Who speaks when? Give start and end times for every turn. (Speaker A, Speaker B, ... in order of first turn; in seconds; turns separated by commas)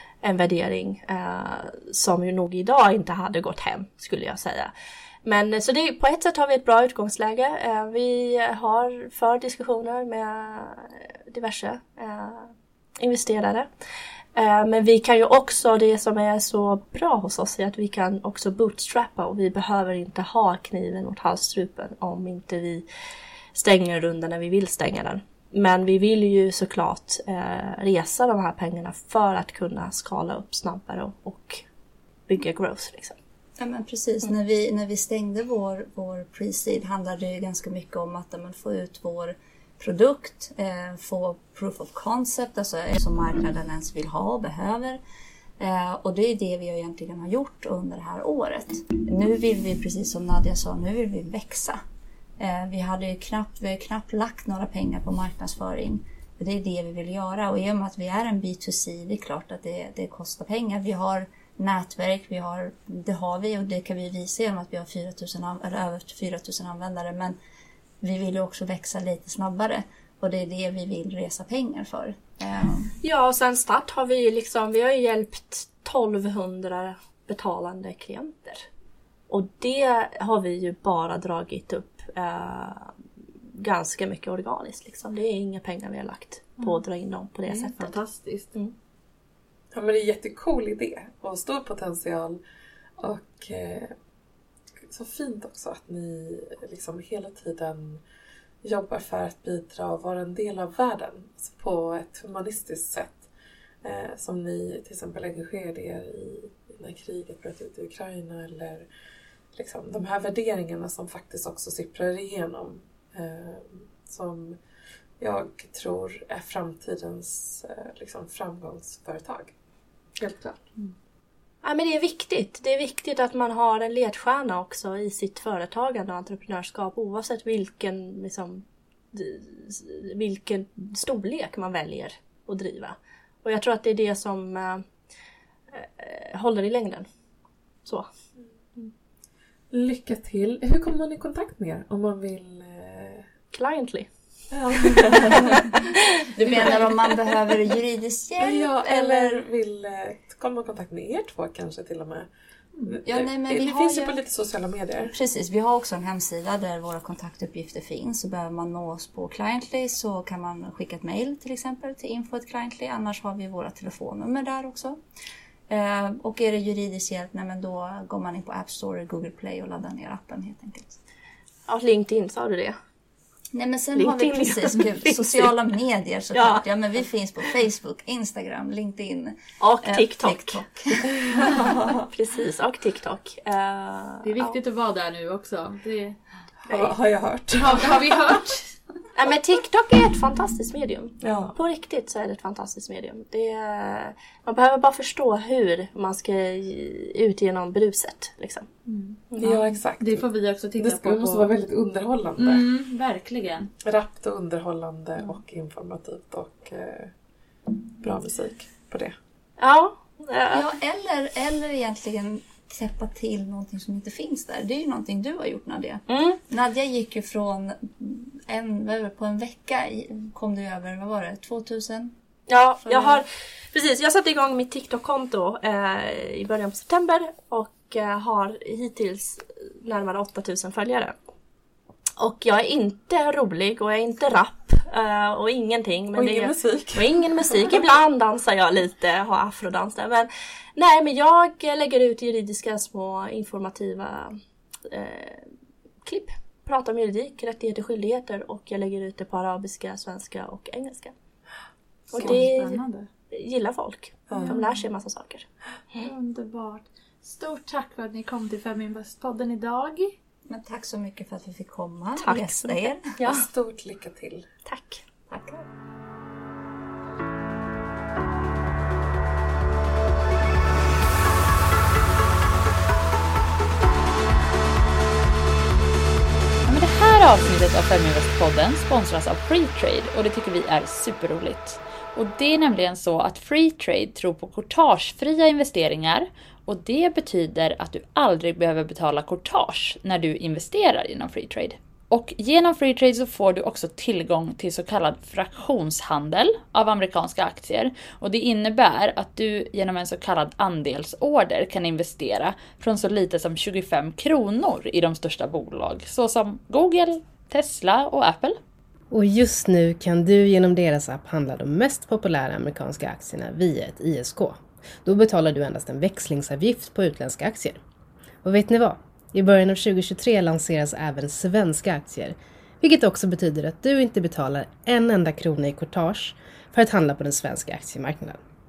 Speaker A: 0.2-4.7, Speaker A: 5.2-13.7, Speaker A: 14.4-22.9, Speaker A: 23.6-31.6, Speaker A: 32.3-33.2, Speaker B: 33.6-45.0, Speaker B: 45.6-51.8, Speaker B: 52.4-67.4, Speaker B: 68.0-72.9, Speaker A: 73.0-78.7, Speaker A: 79.3-82.9, Speaker A: 83.5-88.0, Speaker C: 87.5-88.5, Speaker D: 89.7-92.4, Speaker D: 93.0-93.9, Speaker D: 94.9-98.0, Speaker D: 98.6-103.3, Speaker D: 103.8-108.9, Speaker D: 109.5-114.6, Speaker D: 115.2-119.5, Speaker D: 120.2-120.6, Speaker A: 121.6-134.8, Speaker A: 135.7-137.1, Speaker D: 139.7-143.3, Speaker A: 143.5-144.1, Speaker D: 144.5-145.8, Speaker A: 144.9-146.3, Speaker B: 146.4-149.4, Speaker D: 146.5-146.8, Speaker D: 148.4-152.3, Speaker D: 152.9-155.1, Speaker B: 153.1-154.2, Speaker B: 155.1-165.0, Speaker B: 165.7-171.0, Speaker A: 171.7-172.8, Speaker B: 173.5-181.1, Speaker A: 174.0-175.5, Speaker A: 176.3-176.7, Speaker A: 179.6-180.6, Speaker D: 181.3-182.0, Speaker A: 181.5-184.6, Speaker C: 184.2-186.2, Speaker D: 186.7-188.4, Speaker C: 187.6-188.7, Speaker A: 189.2-198.7, Speaker D: 191.2-191.6, Speaker C: 198.9-201.5, Speaker D: 199.4-202.7, Speaker C: 202.4-203.7, Speaker D: 203.8-207.1, Speaker D: 208.0-209.2, Speaker A: 209.6-210.7, Speaker B: 210.5-222.2, Speaker A: 216.1-216.4, Speaker A: 222.5-231.2, Speaker B: 222.8-223.2, Speaker A: 232.2-245.5, Speaker D: 236.1-237.8, Speaker A: 246.1-251.1, Speaker A: 252.1-256.0, Speaker C: 252.1-253.1, Speaker D: 252.2-252.5, Speaker D: 254.3-254.6, Speaker C: 254.3-254.7, Speaker C: 256.0-260.1, Speaker B: 260.5-263.2, Speaker A: 262.2-262.9, Speaker C: 263.2-263.4, Speaker D: 263.3-264.5, Speaker A: 264.7-265.0, Speaker B: 265.3-265.7, Speaker C: 276.7-308.6, Speaker E: 309.1-317.8, Speaker E: 318.4-328.4